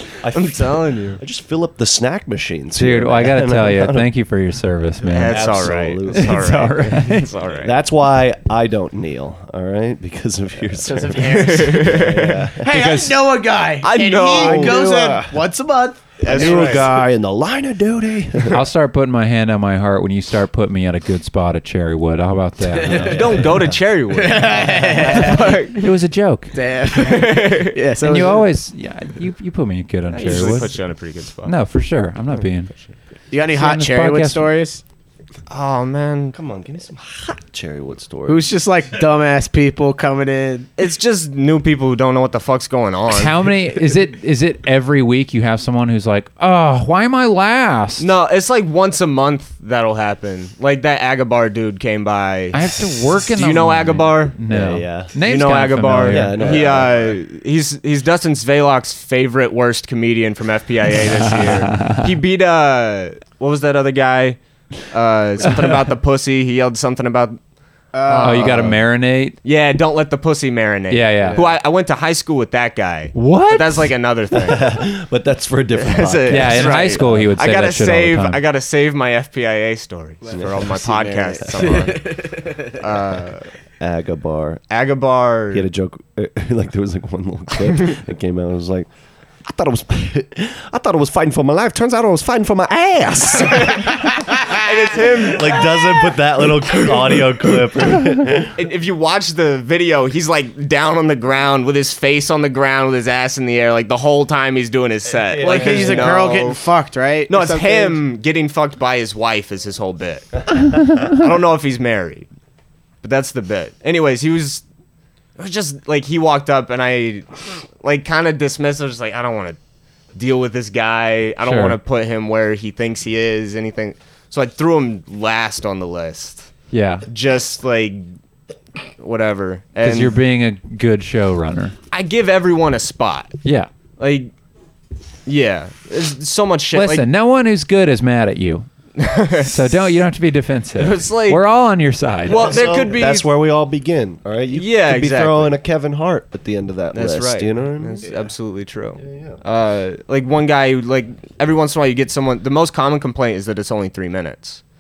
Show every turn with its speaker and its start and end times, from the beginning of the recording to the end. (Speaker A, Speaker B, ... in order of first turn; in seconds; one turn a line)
Speaker A: 0.2-4.1
Speaker B: 0.3-1.2
Speaker C: 2.8-7.3
Speaker B: 5.0-7.7
Speaker A: 5.2-6.7
Speaker A: 7.6-12.9
Speaker D: 10.8-12.0
Speaker B: 11.2-12.5
Speaker D: 12.6-17.0
Speaker C: 12.7-13.2
Speaker B: 13.8-14.9
Speaker A: 14.3-15.4
Speaker B: 16.2-16.9
Speaker A: 16.2-18.7
Speaker C: 18.5-23.5
Speaker D: 22.7-23.1
Speaker B: 22.9-25.9
Speaker A: 23.2-23.6
Speaker D: 24.1-25.6
Speaker C: 25.1-26.6
Speaker D: 26.5-28.5
Speaker B: 26.9-27.8
Speaker C: 28.0-30.8
Speaker B: 30.1-31.6
Speaker C: 31.5-32.7
Speaker D: 33.3-34.8
Speaker C: 33.5-34.5
Speaker B: 35.5-36.4
Speaker A: 36.3-38.5
Speaker D: 38.3-40.7
Speaker B: 40.8-43.5
Speaker C: 43.1-48.1
Speaker B: 48.0-54.4
Speaker C: 52.5-56.6
Speaker A: 54.5-55.1
Speaker B: 55.2-67.4
Speaker A: 56.1-57.2
Speaker C: 61.1-62.1
Speaker C: 65.4-65.8
Speaker D: 67.9-68.7
Speaker B: 68.0-68.8
Speaker C: 68.2-69.4
Speaker B: 69.4-74.8
Speaker C: 70.9-71.5
Speaker D: 71.2-71.5
Speaker C: 73.1-73.9
Speaker A: 74.3-77.3
Speaker B: 75.8-83.5
Speaker C: 76.3-78.4
Speaker D: 80.2-82.7
Speaker A: 80.3-80.7
Speaker A: 83.8-84.6
Speaker B: 84.7-85.7
Speaker A: 85.5-88.9
Speaker A: 89.4-94.0
Speaker B: 93.4-95.8
Speaker A: 95.1-98.6
Speaker B: 98.6-106.6
Speaker A: 105.1-106.2
Speaker D: 105.4-108.0
Speaker B: 107.3-110.4
Speaker B: 111.1-112.3
Speaker B: 113.0-114.6
Speaker B: 115.4-119.6
Speaker B: 120.1-126.5
Speaker C: 121.4-121.8
Speaker C: 126.7-127.1
Speaker B: 127.1-128.1
Speaker B: 129.0-130.2
Speaker C: 129.8-131.8
Speaker B: 131.9-133.4
Speaker C: 133.4-133.7
Speaker B: 134.0-134.3
Speaker B: 135.3-137.1
Speaker C: 136.7-138.7
Speaker B: 139.0-139.8
Speaker C: 139.4-142.6
Speaker B: 140.8-141.4
Speaker B: 142.3-143.3
Speaker A: 142.3-148.1
Speaker B: 144.5-145.6
Speaker B: 146.9-154.6
Speaker A: 149.0-149.4